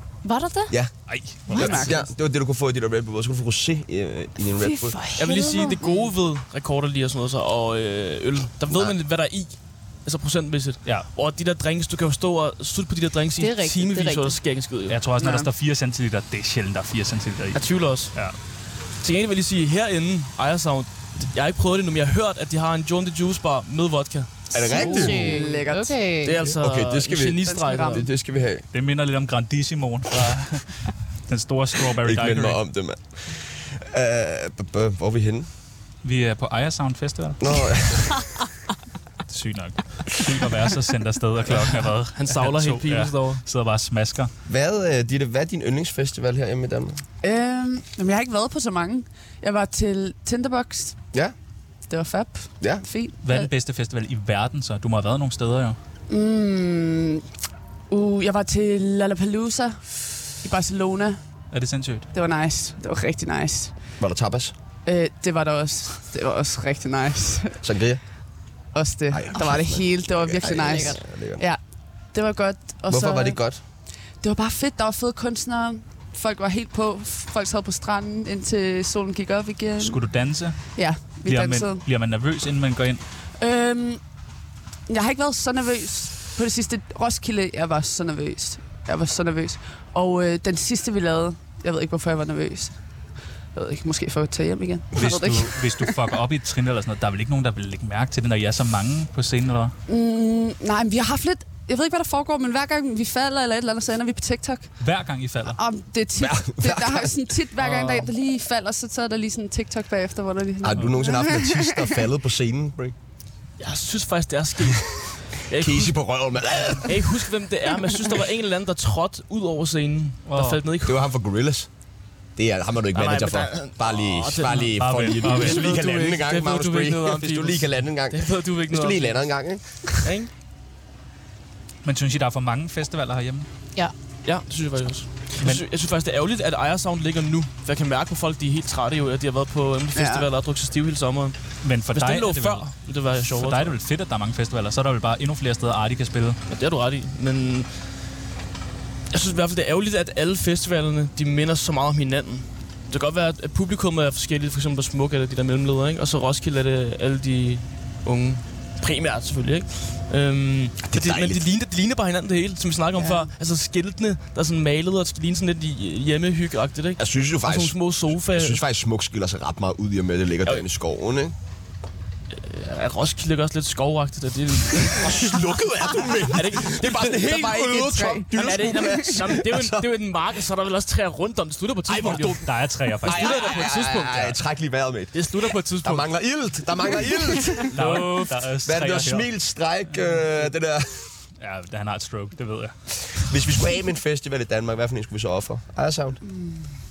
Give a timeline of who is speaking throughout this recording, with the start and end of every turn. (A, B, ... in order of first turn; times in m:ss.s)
0:00.2-0:00.8 A
0:00.7-0:00.9 B
0:01.1-0:02.0 C
0:01.5-0:02.0 D
0:01.5-0:05.0 B
0:04.6-0:06.0 A
0:05.2-0:15.0 E
0:13.4-0:14.4 A
0:14.9-0:18.4 C
0:15.2-0:15.5 D
0:17.5-0:18.3 E
0:19.0-0:24.8 E
0:24.5-0:25.4 B
0:24.5-0:26.4 A
0:24.7-0:26.0 D
0:26.2-0:28.1 E
0:26.4-0:28.6 B
0:27.5-0:28.0 D
0:28.7-0:32.6 C
0:32.0-0:35.5 B
0:36.0-0:37.4 C
0:37.4-0:38.3 B
0:39.3-0:44.3 C
0:41.6-0:43.4 E
0:44.4-0:47.0 B
0:47.2-0:51.0 D
0:51.9-0:53.5 D
0:53.2-0:55.8 C
0:56.1-0:57.2 D
0:57.9-1:01.2 D
1:01.5-1:02.1 C
1:02.1-1:03.8 D
1:04.0-1:04.5 B
1:04.8-1:07.6 D
1:07.6-1:08.0 B
1:08.7-1:11.6 D
1:09.1-1:11.4 B
1:10.4-1:11.0 A
1:12.1-1:13.4 D
1:12.9-1:13.6 B
1:14.2-1:20.0 D
1:19.8-1:23.0 C
1:20.7-1:21.8 D
1:23.4-1:24.0 D
1:24.9-1:32.8 D
1:33.5-1:36.0 D
1:34.9-1:39.7 C
1:39.9-1:44.7 D
1:44.8-1:45.6 C
1:45.5-1:51.9 D
1:46.2-1:47.1 B
1:47.6-1:48.0 E
1:50.6-1:52.9 B
1:53.6-1:56.0 E
1:55.5-1:57.2 B
1:56.8-2:01.0 E
2:00.3-2:00.6 C
2:00.8-2:01.7 B
2:02.4-2:09.6 B
2:02.9-2:09.3 E
2:04.8-2:05.8 C
2:09.8-2:10.3 E
2:11.8-2:13.5 C
2:14.2-2:23.8 E
2:15.4-2:15.6 C
2:19.9-2:20.2 D
2:21.6-2:22.7 C
2:23.3-2:26.4 C
2:26.5-2:27.7 E
2:29.1-2:48.6 E
2:40.9-2:41.4 B
2:43.0-2:43.3 D
2:47.0-2:51.3 B
2:52.3-2:55.4 E
2:55.0-2:59.9 B
2:56.2-2:57.2 E
2:57.1-2:59.2 D
2:58.3-3:02.4 E
3:01.9-3:11.1 B
3:02.1-3:03.5 C
3:03.0-3:04.4 E
3:05.1-3:06.1 E
3:07.7-3:09.3 C
3:07.7-3:08.2 E
3:11.4-3:13.2 C
3:13.1-3:16.2 B
3:16.3-3:16.6 D